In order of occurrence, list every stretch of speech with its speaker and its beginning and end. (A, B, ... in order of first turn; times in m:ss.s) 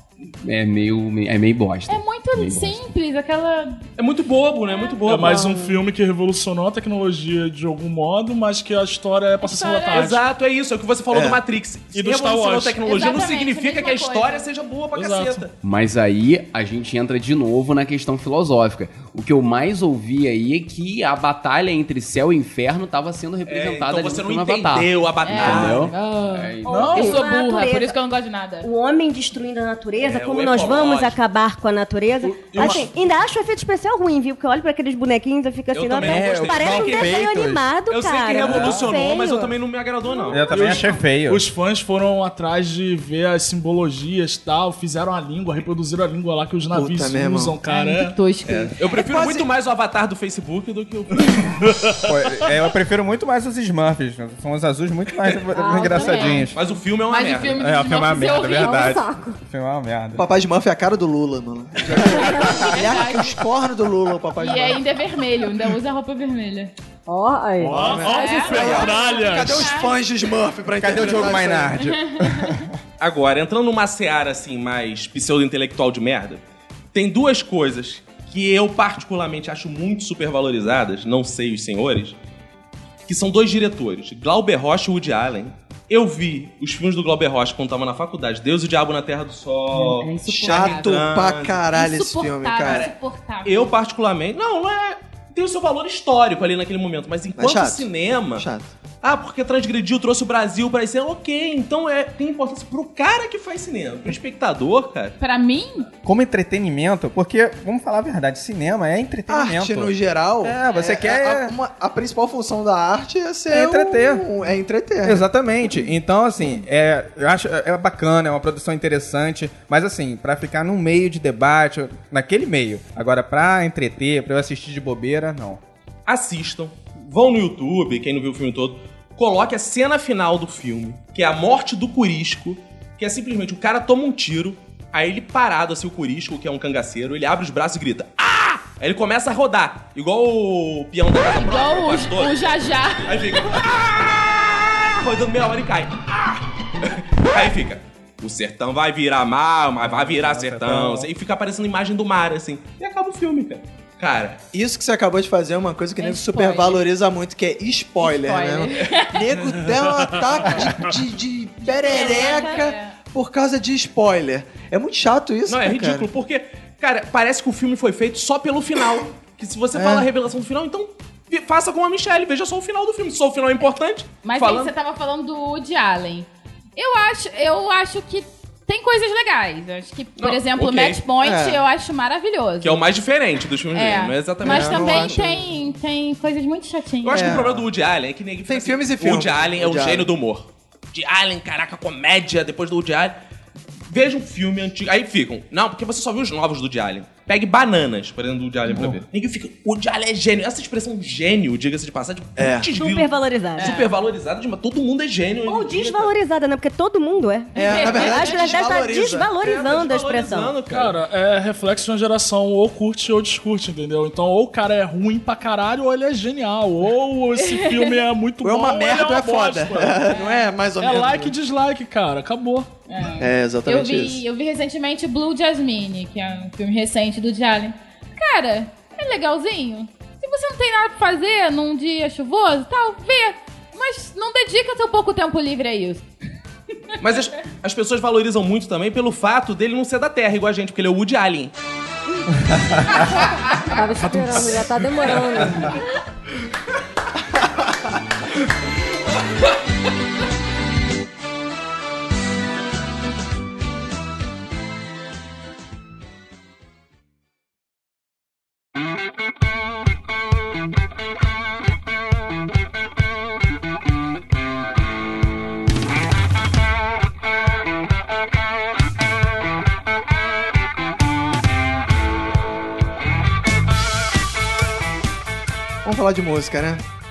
0:00.3-0:02.8 A
0:01.9-0:03.8 B
0:04.0-0:05.5 C
0:05.0-0:10.2 D
0:05.4-0:05.7 E
0:09.4-0:10.1 B
0:09.9-0:15.5 C
0:11.1-0:11.4 F
0:11.9-0:12.8 D
0:12.8-0:14.4 B
0:14.9-0:15.5 D
0:15.6-0:26.9 A
0:23.4-0:25.9 C
0:25.2-0:28.7 B
0:26.6-0:27.2 D
0:26.9-0:28.0 G
0:28.6-0:39.5 G
0:30.0-0:31.2 C
0:32.2-0:32.9 D
0:35.7-0:37.3 C
0:36.0-0:37.7 H
0:37.9-0:40.6 C
0:38.4-0:38.9 H
0:40.3-0:41.4 H
0:40.4-0:48.2 D
0:46.7-0:47.6 F
0:47.7-0:48.9 B
0:48.5-0:49.4 F
0:48.8-0:51.6 C
0:52.0-0:56.6 H
0:55.5-0:56.5 E
0:55.6-0:56.5 B
0:56.5-0:57.6 C
0:57.1-0:59.0 B
0:57.6-1:00.2 H
0:58.5-0:59.4 E
1:00.1-1:04.8 F
1:01.8-1:02.4 H
1:02.0-1:03.4 B
1:04.4-1:06.7 B
1:07.0-1:08.4 E
1:07.6-1:09.7 D
1:07.6-1:11.7 F
1:08.1-1:09.9 B
1:10.8-1:12.7 H
1:11.8-1:12.6 B
1:13.0-1:16.4 C
1:16.9-1:22.2 C
1:23.1-1:31.6 C
1:29.8-1:31.1 B
1:30.2-1:32.9 F
1:31.7-1:33.7 B
1:32.6-1:32.9 C
1:33.4-1:38.5 C
1:37.4-1:38.7 F
1:39.0-1:45.2 C
1:45.2-1:45.9 B
1:46.0-1:51.5 H
1:49.3-1:55.2 F
1:53.5-1:54.2 H
1:55.0-2:05.6 H
2:06.1-2:22.4 C
2:21.4-2:23.1 B
2:23.0-2:34.4 C
2:29.8-2:31.1 H
2:34.5-2:46.1 F
2:36.0-2:36.8 B
2:38.0-2:39.2 B
2:41.8-2:42.9 B
2:41.8-2:42.6 G
2:45.5-2:54.7 C
2:49.7-2:50.1 F
2:54.2-3:02.8 B
3:00.2-3:01.0 C
3:01.2-3:01.6 F
3:02.6-3:05.2 C
3:03.7-3:07.4 B
3:04.4-3:05.5 F
3:07.0-3:13.2 C
3:07.1-3:07.7 F
3:08.5-3:10.1 F
3:13.9-3:26.1 C
3:18.7-3:19.0 F
3:22.4-3:22.7 F
3:22.8-3:23.8 G
3:23.6-3:23.9 B
3:25.4-3:30.6 G
3:27.5-3:28.6 B
3:27.6-3:29.3 F
3:29.4-3:31.0 C
3:30.6-3:40.1 D
3:37.4-3:38.0 B
3:38.4-3:41.3 F
3:40.1-3:40.4 B
3:40.8-3:42.7 D
3:42.9-3:56.1 B
3:43.2-3:44.2 F
3:57.0-4:01.5 C
4:02.9-4:03.7 B
4:03.7-4:05.7 E
4:04.0-4:05.6 D
4:35.8-4:36.8 F